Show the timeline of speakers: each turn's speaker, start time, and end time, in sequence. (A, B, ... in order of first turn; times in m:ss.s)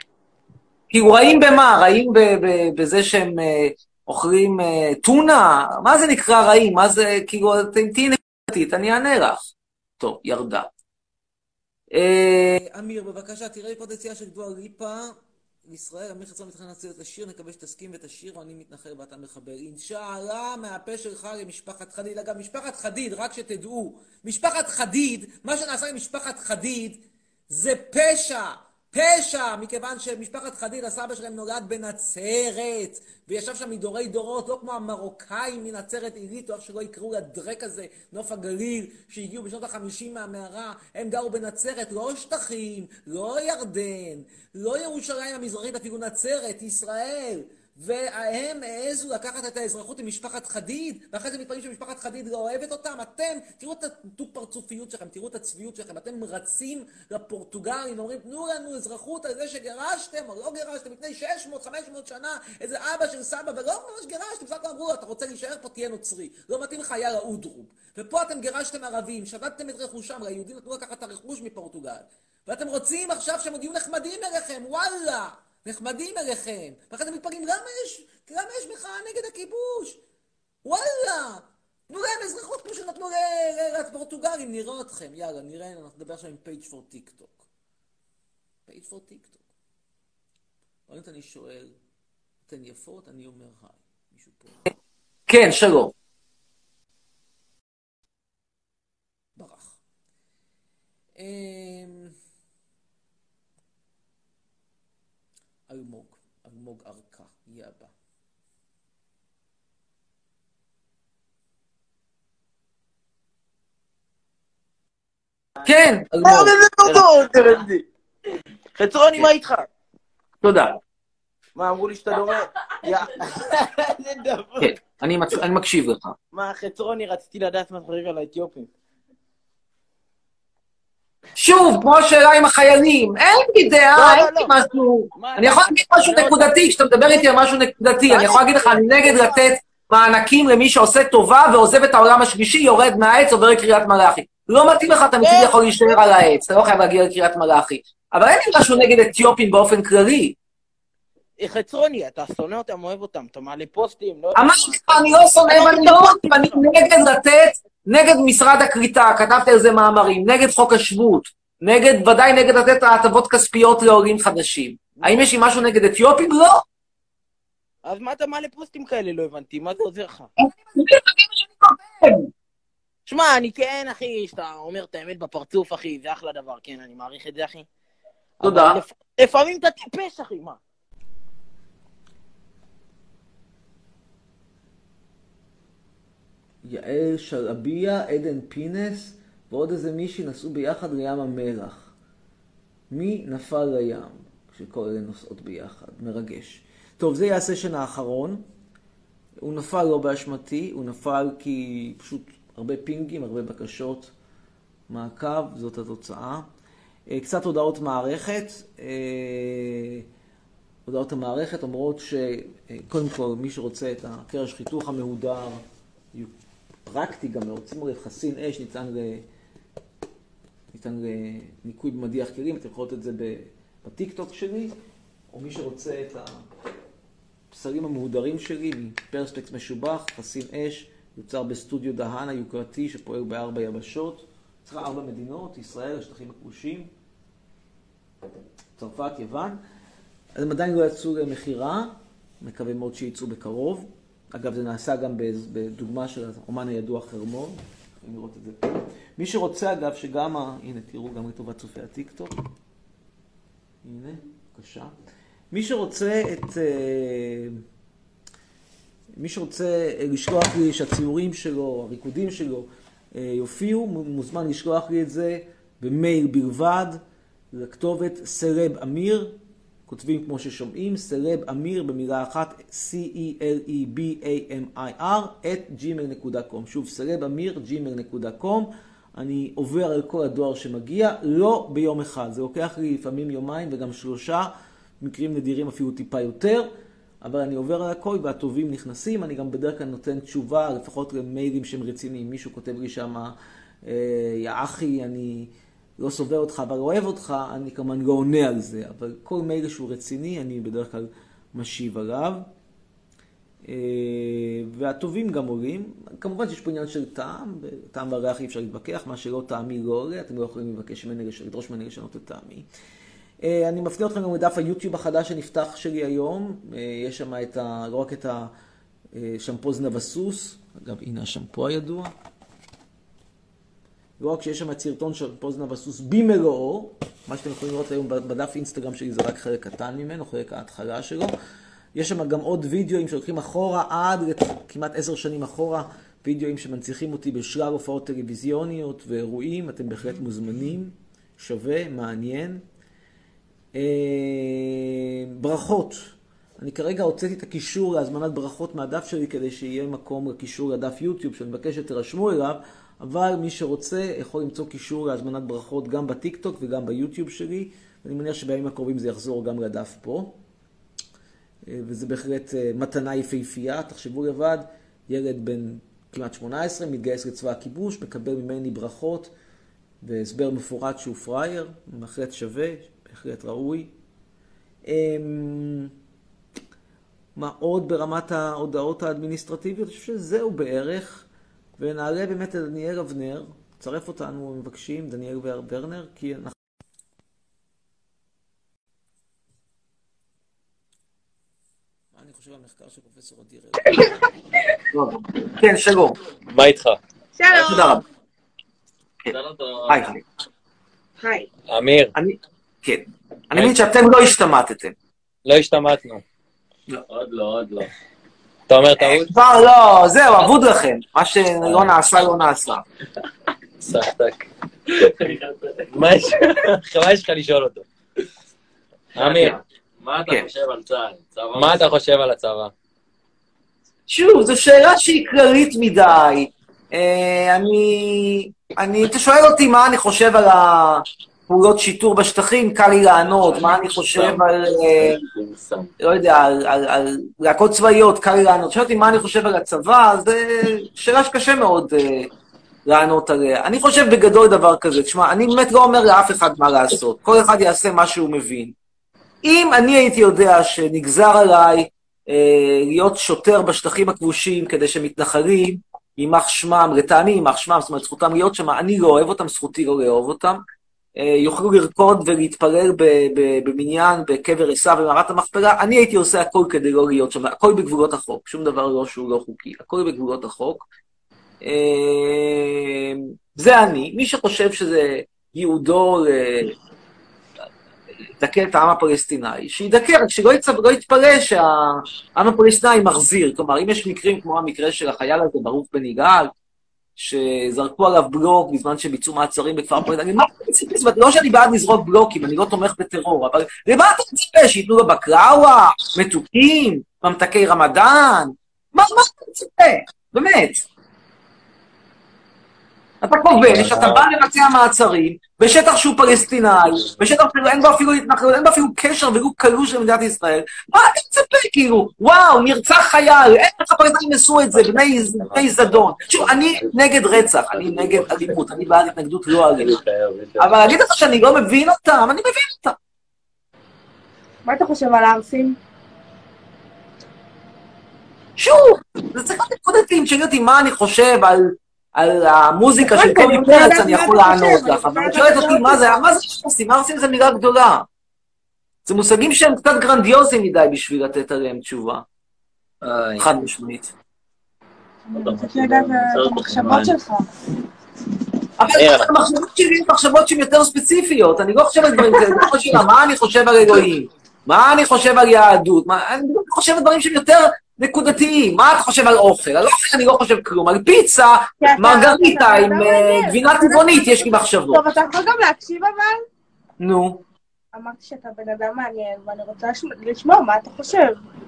0:00.9-0:09.4 A
0:10.0-0:10.7 A
0:11.9-0:15.2 A
0:15.7-1:20.0 A
1:20.6-1:27.5 A
1:28.7-1:29.5 A
1:30.9-1:31.8 A
1:32.5-1:34.6 A
1:35.3-1:35.9 A
1:39.4-1:39.8 A
1:41.2-1:42.2 A
1:45.7-1:47.9 A
1:55.6-1:57.0 A
1:56.2-1:57.8 B
1:58.8-1:59.7 B
2:00.4-2:00.8 A
2:01.6-2:04.8 B
2:04.6-2:06.2 A
2:06.3-2:08.7 B
2:11.4-2:30.4 A
2:13.9-2:16.6 B
2:18.1-2:19.5 B
2:25.2-2:26.0 B
2:31.4-2:36.7 B
2:34.4-2:46.6 A
2:45.0-2:45.2 B
2:47.8-2:50.3 B
2:50.4-2:52.3 A
2:53.1-2:57.7 B
2:58.4-3:00.6 B
2:58.4-2:58.8 A
3:06.6-3:11.9 A
3:12.9-3:18.4 A
3:19.4-3:24.1 A
3:24.9-3:26.5 A
3:27.1-3:30.0 A
3:30.9-3:35.6 A
3:36.8-3:39.3 A
3:40.7-3:44.8 A
3:45.3-3:46.4 A
3:47.5-3:56.9 A
3:58.8-3:59.6 A
4:00.4-4:12.3 A
4:13.8-4:14.9 A
4:15.5-4:17.6 A
4:19.2-4:27.0 A
4:27.5-4:29.4 A
4:29.9-4:44.5 A
4:45.0-4:46.7 A
4:47.2-4:53.3 A
4:53.8-5:02.4 A
5:03.6-5:12.7 A
5:13.4-5:18.5 A
5:19.1-5:22.1 A
5:24.2-5:31.3 A
5:32.0-5:42.6 A
5:43.7-6:00.4 A
6:01.7-6:09.3 A
6:10.0-6:13.9 A
6:14.9-6:15.9 A
6:17.4-6:21.3 A
6:21.8-6:26.5 A
6:32.1-6:34.0 A
6:34.9-6:36.2 A
6:36.5-6:37.0 C
6:37.4-6:38.0 D
6:37.5-6:38.0 A
6:39.4-6:39.7 E
6:39.9-6:40.2 A
6:41.2-6:41.5 D
6:41.7-6:42.1 C
6:42.2-6:45.0 A
6:45.5-6:46.2 C
6:47.2-6:47.6 E
6:48.7-6:49.3 C
6:49.0-6:52.8 A
6:51.6-6:51.9 C
6:53.8-6:54.5 C
6:55.9-6:57.8 C
6:59.2-6:59.6 C
6:59.2-6:59.6 A
7:00.1-7:01.4 E
7:00.3-7:00.6 C
7:01.5-7:02.7 C
7:04.1-7:15.2 A
7:13.4-7:15.8 C
7:16.0-7:22.3 A
7:22.9-7:28.7 A
7:29.4-7:40.6 A
7:41.2-7:50.9 A
7:51.6-7:56.7 A
7:58.4-8:06.5 A
8:07.2-8:20.8 A
8:23.2-8:40.0 A
8:23.5-8:24.3 C
8:34.8-8:38.6 C
8:39.7-8:40.9 C
8:40.6-8:43.0 A
8:44.6-8:45.8 D
8:48.6-8:58.1 A
8:53.0-8:56.2 D
8:59.1-9:02.2 A
9:03.0-9:03.5 C
9:03.4-9:04.1 A
9:05.3-9:07.5 D
9:05.4-9:07.1 C
9:08.8-9:25.0 A
9:08.9-9:09.3 C
9:21.8-9:26.4 D
9:27.0-9:27.4 A
9:27.9-9:31.4 D